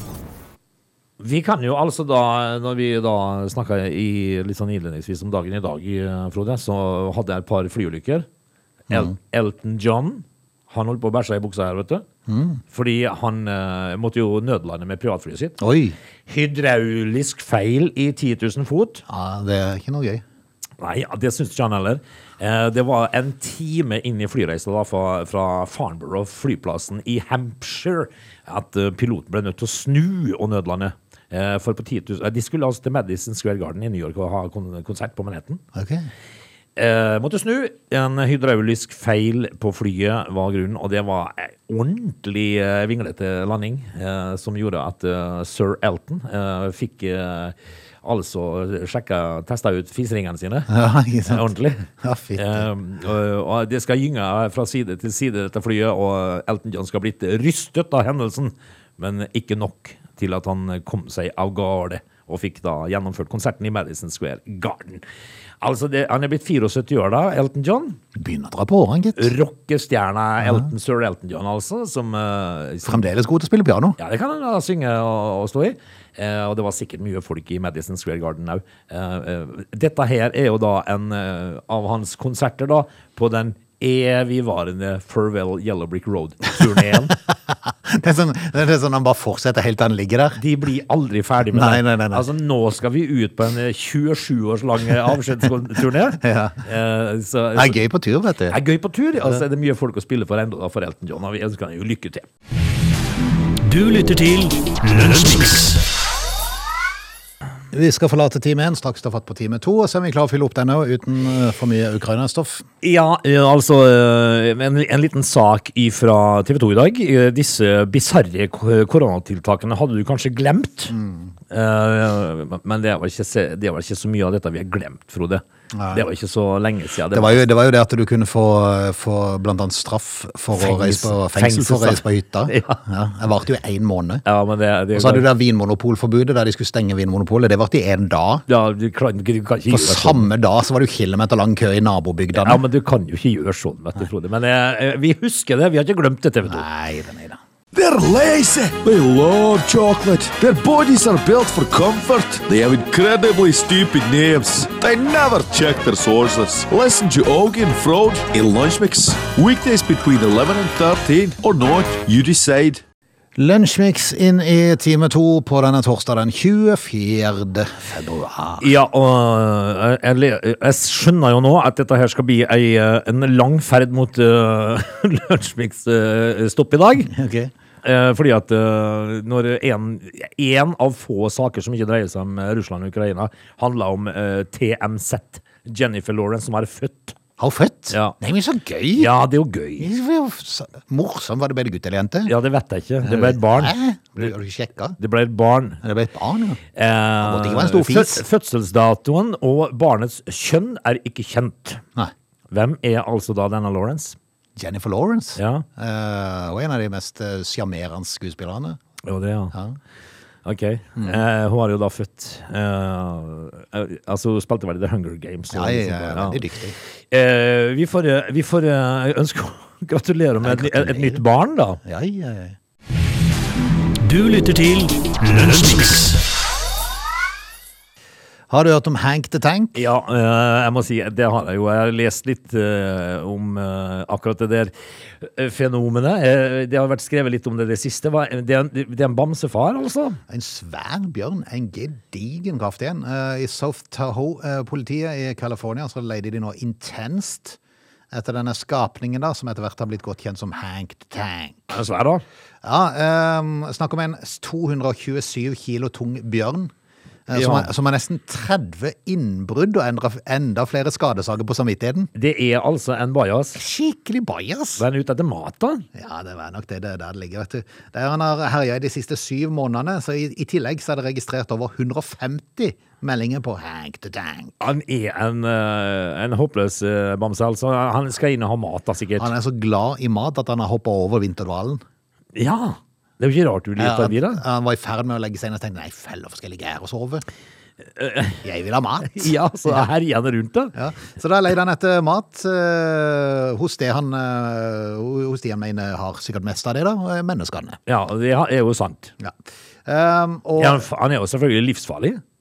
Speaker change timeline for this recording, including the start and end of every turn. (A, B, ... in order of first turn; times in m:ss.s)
0:01.2-0:08.3 A
0:08.9-0:12.0 A
0:12.3-0:12.6 B
0:12.7-0:15.6 A
0:15.6-0:16.0 B
0:16.3-0:19.0 A
0:19.1-0:20.2 B
0:20.8-0:35.6 A
0:35.7-0:36.1 B
0:36.8-0:50.7 A
0:50.7-0:51.5 B
0:51.2-1:05.0 A
0:52.0-0:52.7 B
1:05.6-1:08.0 A
1:08.1-1:09.3 B
1:09.2-1:13.1 A
1:12.8-1:14.0 B
1:14.0-1:27.2 A
1:27.3-1:30.4 B
1:30.3-1:37.8 A
1:31.5-1:32.2 B
1:36.2-1:36.6 B
1:37.5-1:38.6 B
1:38.5-1:42.3 A
1:43.6-1:45.8 C
1:47.7-1:52.6 B
1:52.8-2:00.9 A
2:00.9-2:01.3 B
2:01.5-2:07.4 A
2:05.7-2:06.1 B
2:07.1-2:14.2 B
2:10.5-2:12.8 A
2:14.2-2:15.3 A
2:14.9-2:18.4 B
2:18.5-2:20.3 A
2:19.7-2:22.6 B
2:22.3-2:26.6 A
2:26.4-2:27.4 B
2:27.7-2:42.8 D
2:43.4-2:48.7 B
2:48.6-2:57.1 A
2:57.1-2:57.5 B
2:57.8-3:07.2 A
3:07.4-3:09.1 B
3:09.0-3:09.9 A
3:09.8-3:12.3 B
3:12.2-3:14.3 A
3:13.0-3:15.0 B
3:15.0-3:15.8 A
3:15.8-3:16.6 B
3:16.7-3:21.8 A
3:17.2-3:18.2 B
3:22.5-3:24.2 A
3:24.6-3:28.8 B
3:25.4-3:25.6 A
3:29.0-3:29.5 A
3:29.5-3:29.8 B
3:30.4-3:36.4 A
3:31.0-3:31.2 B
3:35.5-3:36.8 B
3:37.1-3:41.8 A
3:40.4-3:41.2 B
3:41.8-3:42.6 B
3:44.0-3:46.2 C
3:48.5-3:49.8 B
3:49.7-4:00.2 A
4:00.3-4:07.6 B
4:08.1-4:11.7 B
4:11.7-4:12.2 A
4:12.6-4:16.7 B
4:17.3-4:22.1 B
4:17.3-4:17.7 A
4:22.1-4:23.6 A
4:23.6-4:24.8 B
4:24.8-4:25.8 A
4:25.9-4:34.6 B
4:34.6-4:39.3 A
4:39.2-4:41.8 B
4:42.3-4:44.4 A
4:43.8-4:47.2 B
4:47.8-4:48.4 A
4:48.4-4:49.9 B
4:49.1-4:50.7 A
4:50.7-4:57.8 B
4:57.8-4:59.1 A
4:59.2-5:00.8 B
5:00.6-5:02.2 A